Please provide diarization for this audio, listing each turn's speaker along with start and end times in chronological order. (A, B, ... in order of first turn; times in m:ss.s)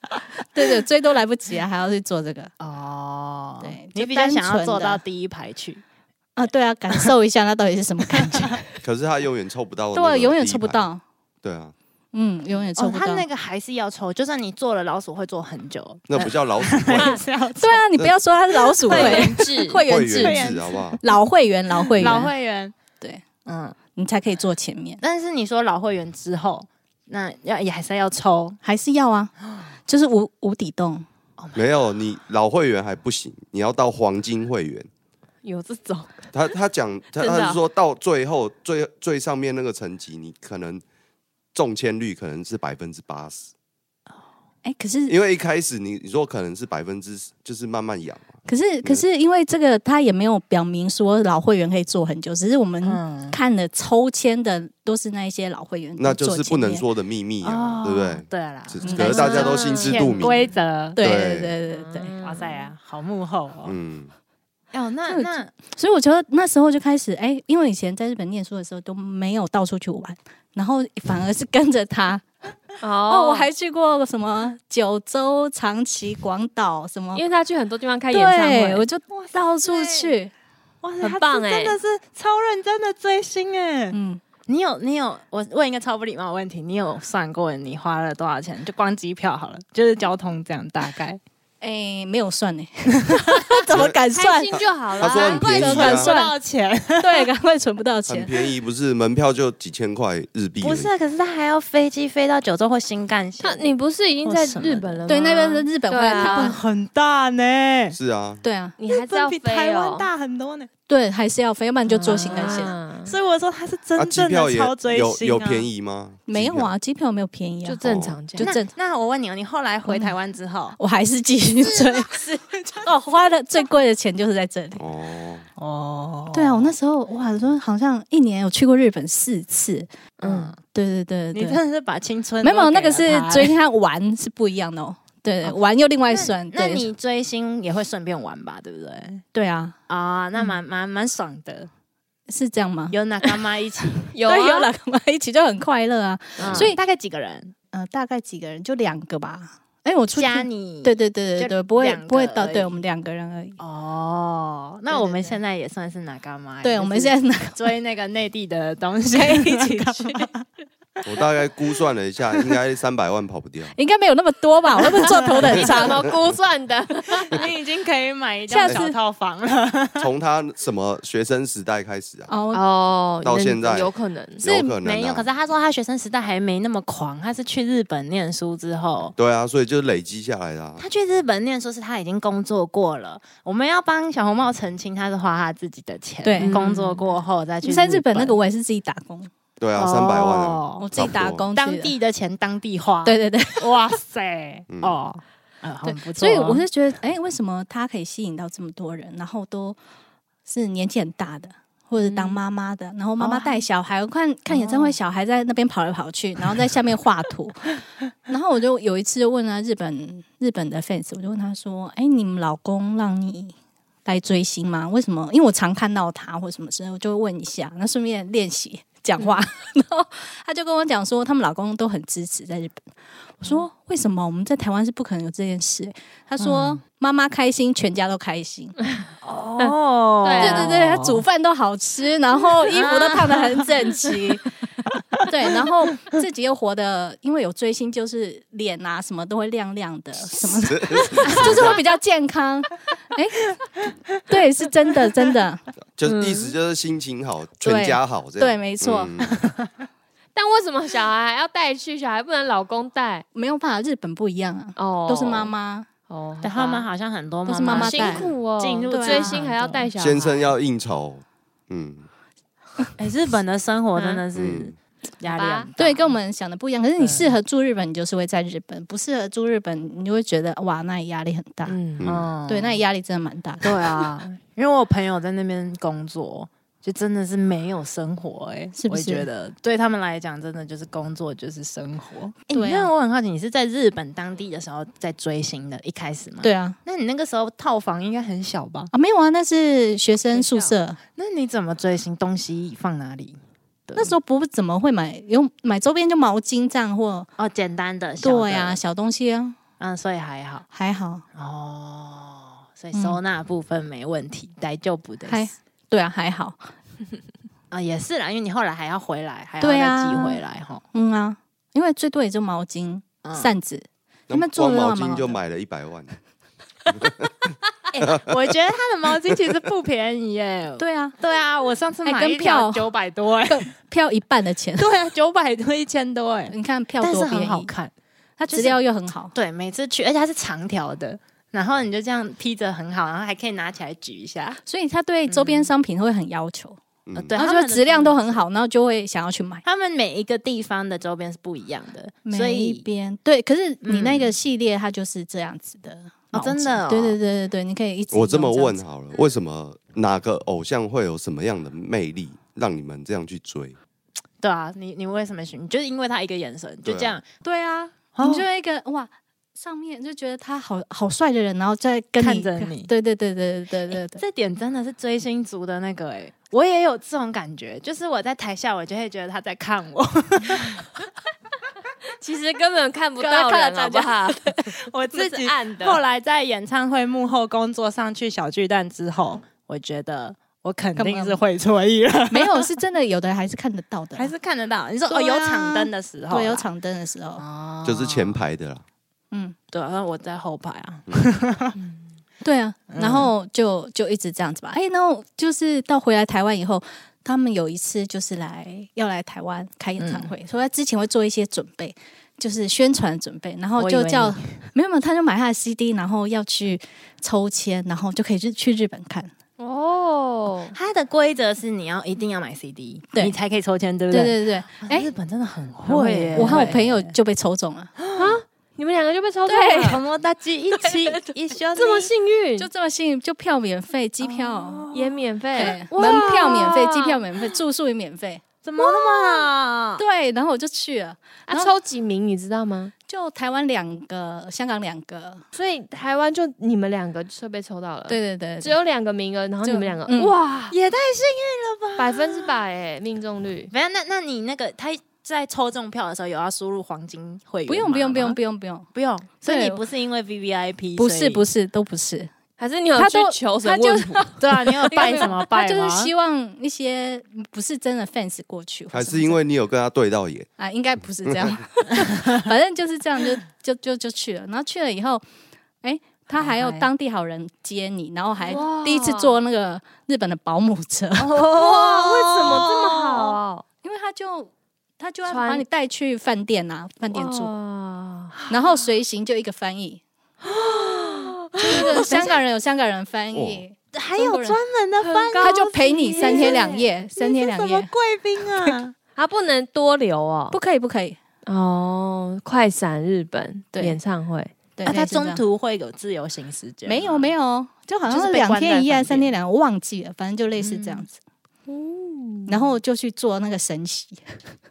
0:00.4-0:02.5 A
0:02.6-0:05.8 B
0:03.6-0:05.0 A
0:06.4-0:08.6 A
0:08.8-0:10.8 C
0:09.9-0:11.0 A
0:11.4-0:11.7 C
0:12.1-0:13.2 A
0:12.8-0:17.8 B
0:16.1-0:17.2 C
0:17.6-0:22.3 A
0:18.8-0:19.5 B
0:18.9-0:19.2 C
0:18.9-0:19.8 D
0:19.8-0:21.0 C
0:20.0-0:21.1 B
0:21.8-0:22.7 B
0:23.4-0:23.8 B
0:23.9-0:25.0 A
0:25.0-0:28.6 B
0:28.6-0:29.3 A
0:29.9-0:31.0 A
0:31.4-0:31.7 B
0:31.5-0:34.9 C
0:35.4-0:36.3 D
0:36.3-0:40.8 C
0:37.2-0:37.6 D
0:41.5-0:43.5 C
0:44.6-0:45.1 A
0:45.1-0:49.0 C
0:48.5-0:56.8 A
0:52.8-0:53.4 B
0:56.0-1:01.5 C
0:57.4-1:01.0 B
0:58.8-0:59.6 A
0:59.0-1:00.0 D
1:01.0-1:02.1 A
1:01.7-1:02.7 D
1:02.2-1:03.8 B
1:03.6-1:04.1 C
1:04.7-1:05.5 B
1:05.1-1:12.2 A
1:12.8-1:13.5 D
1:13.1-1:17.2 A
1:17.1-1:18.8 D
1:18.1-1:20.3 A
1:19.1-1:20.1 B
1:20.8-1:31.2 B
1:21.0-1:21.8 D
1:23.9-1:24.2 A
1:31.6-1:34.6 A
1:33.7-1:34.0 C
1:34.1-1:35.9 D
1:35.0-1:36.1 C
1:35.1-1:36.3 A
1:35.5-1:37.3 B
1:37.0-1:38.3 A
1:38.1-1:40.9 C
1:40.6-1:45.0 B
1:43.4-1:46.6 D
1:45.1-1:46.6 A
1:46.1-1:48.0 B
1:47.9-1:48.4 C
1:48.4-1:48.8 A
1:48.8-1:50.1 D
1:48.9-1:50.7 B
1:50.9-1:52.7 A
1:51.9-1:53.1 D
1:52.0-1:55.7 B
1:54.0-1:56.7 C
1:56.3-1:57.8 A
1:57.6-1:58.5 D
1:57.8-1:58.2 C
1:58.3-1:58.7 A
1:58.4-2:00.8 B
1:59.9-2:00.1 A
2:00.8-2:04.8 A
2:01.7-2:02.8 B
2:04.8-2:05.4 C
2:05.6-2:06.7 B
2:06.3-2:09.9 A
2:10.2-2:10.6 B
2:10.2-2:10.5 D
2:10.6-2:11.6 A
2:11.3-2:13.6 B
2:12.4-2:16.8 A
2:16.1-2:19.2 B
2:19.3-2:19.8 A
2:19.9-2:21.7 B
2:22.3-2:23.2 A
2:22.9-2:24.1 B
2:24.1-2:24.7 D
2:24.2-2:26.8 A
2:26.4-2:27.5 B
2:27.7-2:33.6 A
2:30.1-2:32.8 B
2:33.6-2:40.4 B
2:34.9-2:35.4 A
2:36.6-2:37.6 A
2:39.1-2:40.3 A
2:41.0-2:43.7 C
2:43.7-2:46.0 A
2:45.3-2:47.4 D
2:45.4-2:46.1 C
2:47.3-2:50.1 B
2:48.5-2:49.0 A
2:50.0-2:52.3 C
2:52.3-2:52.6 A
2:52.5-2:54.4 D
2:53.2-2:55.3 C
2:54.4-2:54.7 A
2:54.8-2:59.1 B
2:59.2-3:00.8 C
3:00.8-3:08.4 B
3:06.2-3:06.6 A
3:06.4-3:07.0 D
3:07.6-3:09.3 A
3:09.6-3:11.4 C
3:09.7-3:10.8 B
3:10.8-3:11.9 A
3:11.5-3:16.6 B
3:13.0-3:13.8 A
3:14.7-3:15.0 C
3:15.8-3:19.8 A
3:20.4-3:27.7 A
3:22.0-3:22.3 D
3:23.2-3:23.6 B
3:24.5-3:24.9 B
3:28.3-3:42.8 A
3:43.4-3:48.8 A
3:46.4-3:46.8 B
3:49.2-3:51.2 B
3:49.6-3:50.7 D
3:50.4-3:54.5 A
3:52.7-3:53.7 B
3:55.2-4:03.6 A
4:00.6-4:01.8 C
4:01.3-4:01.7 D
4:04.2-4:05.6 A
4:06.0-4:09.4 C
4:06.0-4:06.5 D
4:07.6-4:09.1 A
4:10.3-4:13.2 D
4:13.3-4:15.9 A
4:14.8-4:15.5 D
4:16.1-4:16.9 D
4:16.4-4:19.9 B
4:17.4-4:18.3 A
4:17.7-4:20.5 D
4:18.9-4:19.4 A
4:20.0-4:22.1 C
4:23.0-4:26.1 B
4:23.9-4:24.2 D
4:24.3-4:24.7 C
4:25.2-4:25.7 D
4:25.8-4:31.8 A
4:27.0-4:27.3 B
4:31.6-4:32.1 D
4:32.0-4:32.3 C
4:32.0-4:32.8 B
4:32.5-4:34.0 A
4:33.6-4:48.9 B
4:38.8-4:39.3 A
4:42.5-4:42.9 A
4:46.4-4:46.8 A
4:48.9-4:51.0 A
4:50.3-4:50.7 D
4:51.2-4:54.1 B
4:53.9-4:57.3 A
4:57.4-4:58.8 B
4:58.2-4:59.6 A
4:59.8-5:00.6 B
5:00.7-5:01.2 A
5:01.3-5:05.5 B
5:05.3-5:06.7 A
5:07.7-5:10.8 B
5:09.6-5:10.4 A
5:10.9-5:15.4 A
5:13.2-5:13.5 B
5:14.3-5:16.2 C
5:16.9-5:17.3 C
5:17.9-5:23.7 B
5:20.8-5:21.2 A
5:22.0-5:22.9 A
5:23.5-5:24.9 A
5:24.8-5:27.9 B
5:26.5-5:27.7 A
5:28.4-5:29.3 A
5:28.5-5:28.8 B
5:29.3-5:34.6 B
5:34.6-5:36.8 A
5:35.3-5:35.7 B
5:37.0-5:37.4 C
5:37.1-5:38.4 B
5:37.3-5:39.6 A
5:39.6-5:42.8 B
5:42.2-5:48.8 A
5:43.8-5:44.3 B
5:46.3-5:47.2 B
5:48.1-5:53.8 C
5:54.4-5:57.2 B
5:56.8-5:57.2 C
5:57.4-6:04.2 A
5:58.1-5:58.4 B
6:02.2-6:02.9 B
6:04.1-6:10.8 B
6:12.2-6:16.0 D
6:13.2-6:14.7 A
6:14.9-6:22.7 B
6:21.0-6:21.4 A
6:22.3-6:24.3 A
6:24.2-6:26.7 B
6:25.1-6:27.4 A
6:27.4-6:28.4 B
6:27.8-6:28.8 C
6:29.7-6:31.8 B
6:32.4-6:49.3 A
6:32.9-6:33.3 B
6:40.0-6:40.3 B
6:43.8-6:44.5 B
6:49.6-6:50.7 D
6:50.7-6:57.1 B
6:54.1-6:55.1 A
6:55.8-6:56.7 D
6:56.3-6:57.9 A
6:58.0-6:58.4 B
6:58.2-7:00.0 D
6:59.5-7:00.0 A
6:59.8-7:02.1 B
7:01.7-7:02.7 D
7:02.6-7:04.9 A
7:04.2-7:06.2 B
7:04.9-7:07.2 D
7:05.5-7:08.4 A
7:08.6-7:10.0 B
7:10.0-7:11.7 A
7:11.5-7:12.9 D
7:13.1-7:15.4 A
7:15.5-7:20.8 D
7:18.1-7:18.8 A
7:19.6-7:20.3 A
7:20.7-7:22.5 B
7:22.0-7:23.7 D
7:23.7-7:28.4 B
7:27.7-7:28.9 A
7:28.9-7:31.4 B
7:29.4-7:29.8 A
7:31.0-7:32.3 A
7:32.6-7:35.3 D
7:33.0-7:39.4 A
7:34.4-7:36.1 B
7:38.9-7:40.5 C
7:40.6-7:45.2 A
7:41.2-7:41.5 C
7:45.8-7:51.4 A
7:46.4-7:46.9 B
7:48.5-7:49.3 D
7:51.2-7:53.4 B
7:51.5-7:53.6 D
7:53.8-7:57.5 A
7:55.3-7:55.6 D
7:57.1-7:58.3 D
7:58.5-8:00.0 A
8:00.5-8:02.4 B
8:00.5-8:02.1 D
8:01.6-8:04.6 A
8:03.3-8:03.6 C
8:03.9-8:08.9 B
8:05.0-8:06.7 D
8:05.4-8:07.9 A
8:09.2-8:10.6 D
8:10.5-8:11.2 A
8:11.4-8:14.5 D
8:13.7-8:14.0 A
8:14.8-8:15.4 A
8:14.8-8:17.2 B
8:16.8-8:21.2 A
8:18.1-8:19.3 B
8:20.6-8:21.0 B
8:21.7-8:22.5 D
8:22.5-8:24.5 A